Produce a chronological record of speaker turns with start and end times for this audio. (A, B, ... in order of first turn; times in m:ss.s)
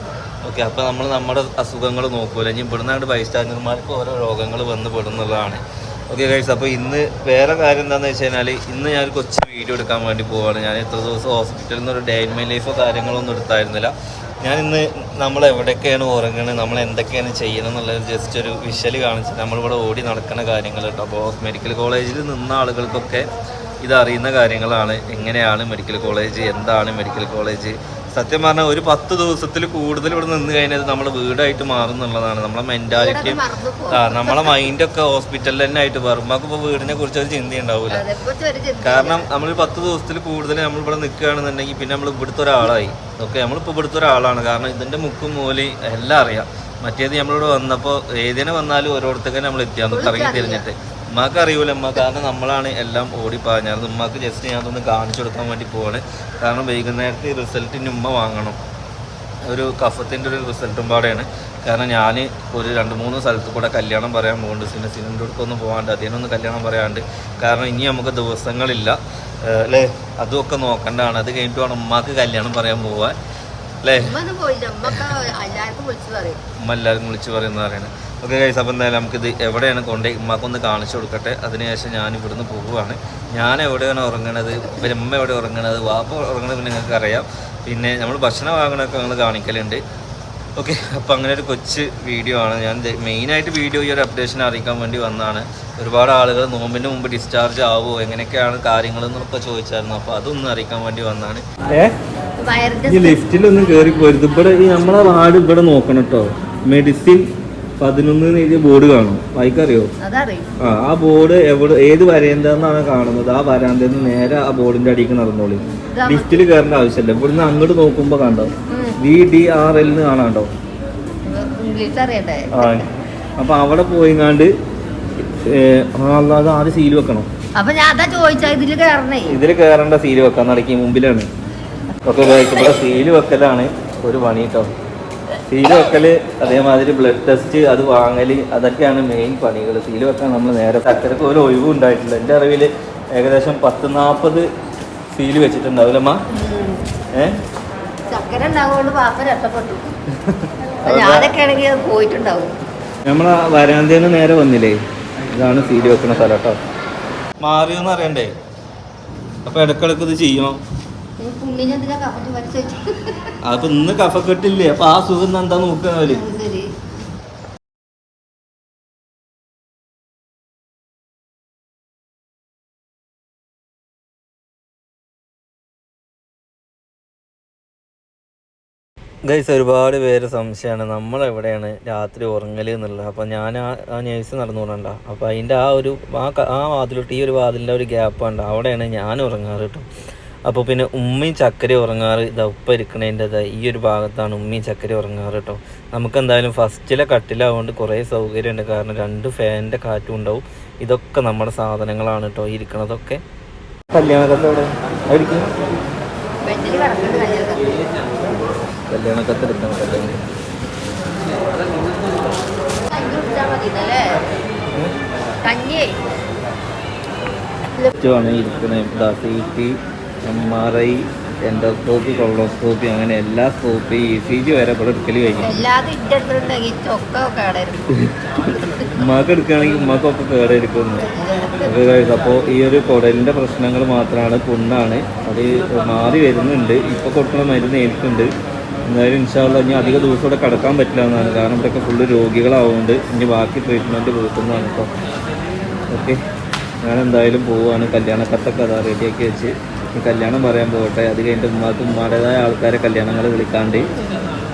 0:00.4-0:23.3 A
0:23.8-0:38.0 A
0:32.9-0:34.6 B
0:37.9-0:39.3 B
0:38.8-0:58.6 A
0:49.9-0:50.7 B
0:59.5-1:13.2 A
1:13.8-1:14.2 A
1:14.0-1:16.4 B
1:16.6-1:29.8 A
1:30.6-1:41.9 A
1:42.4-1:43.3 B
1:42.9-1:47.2 A
1:47.8-1:49.9 A
1:50.0-1:50.6 B
1:50.6-2:00.5 A
1:55.6-1:56.5 B
1:58.7-1:59.0 B
2:01.2-2:02.9 B
2:02.5-2:02.8 A
2:03.4-2:04.5 A
2:05.2-2:07.3 A
2:07.6-2:09.4 B
2:09.3-2:11.3 A
2:12.1-2:14.7 A
2:15.5-2:24.5 A
2:25.1-2:26.2 A
2:26.3-2:26.8 B
2:28.1-2:29.9 B
2:30.2-2:31.3 A
2:30.8-2:32.5 B
2:33.1-2:34.8 A
2:35.3-2:36.6 A
2:37.4-2:38.3 A
2:39.5-2:40.6 A
2:41.2-2:43.4 B
2:43.4-2:46.2 A
2:46.0-2:46.7 B
2:59.3-3:09.8 A
3:10.5-3:23.2 A
3:23.9-3:25.5 A
3:26.4-3:27.8 B
3:28.5-3:30.2 A
3:32.9-3:34.2 B
3:35.4-3:36.0 B
3:38.0-3:45.6 A
3:45.4-3:49.1 B
3:49.0-3:51.0 A
3:51.0-3:51.8 B
3:51.6-3:58.3 A
3:58.9-4:04.9 A
4:05.9-4:06.2 A
4:06.8-4:13.9 A
4:14.0-4:14.3 B